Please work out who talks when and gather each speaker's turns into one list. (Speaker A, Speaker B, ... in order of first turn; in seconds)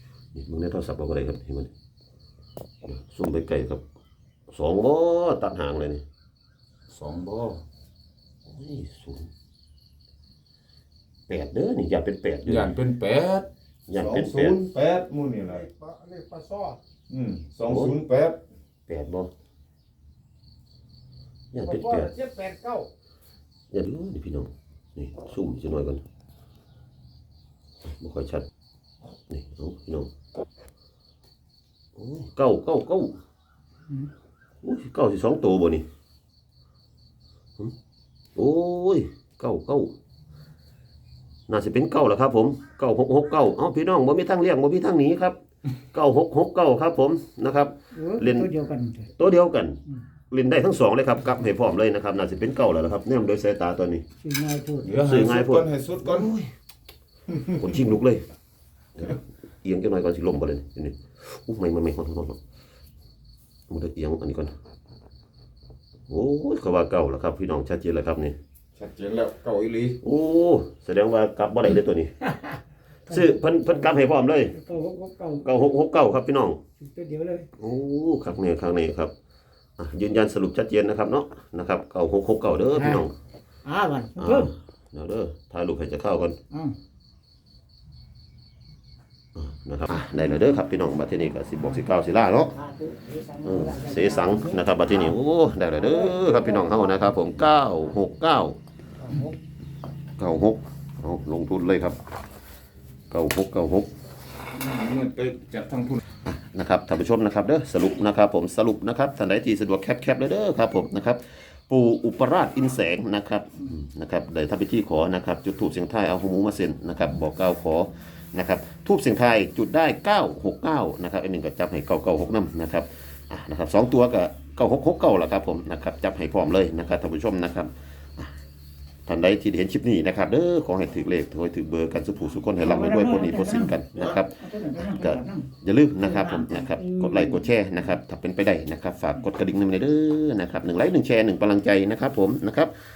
Speaker A: 0.3-1.7, 2.8-3.8, 4.5-6.0, 8.4-9.3, 11.3-12.7, 13.9-14.6, 17.7-18.0, 18.9-19.3, 21.5-22.1, 23.7-26.0, 27.8-28.4, 29.3-30.1, 31.9-33.2, 34.6-35.9, 38.4-39.9, 41.5-45.4, 45.9-48.5, 49.2-54.0, 55.0-56.5, 57.5-58.2, 59.0-62.4, 63.7-64.5, 66.1-68.4, 70.0-72.1, 73.1-74.5, 75.4-76.6, 77.6-79.1, 79.8-83.1, 84.2-86.4, 89.3-92.5, 93.4-98.6, 100.2-102.0, 103.1-103.9, 106.2-128.3, 129.1-142.7
Speaker B: 6.9-7.6, 12.4-15.7, 17.1-18.4, 54.8-56.3, 68.8-70.0, 104.5-106.0
Speaker C: 15.4-16.8, 21.6-22.9
Speaker D: 47.9-49.1, 54.2-55.0, 72.2-73.9, 74.5-75.5, 76.8-77.5, 82.7-83.0, 83.6-84.5, 86.5-86.8, 92.5-95.2, 95.8-97.4, 99.0-99.3, 132.6-135.5, 136.0-137.5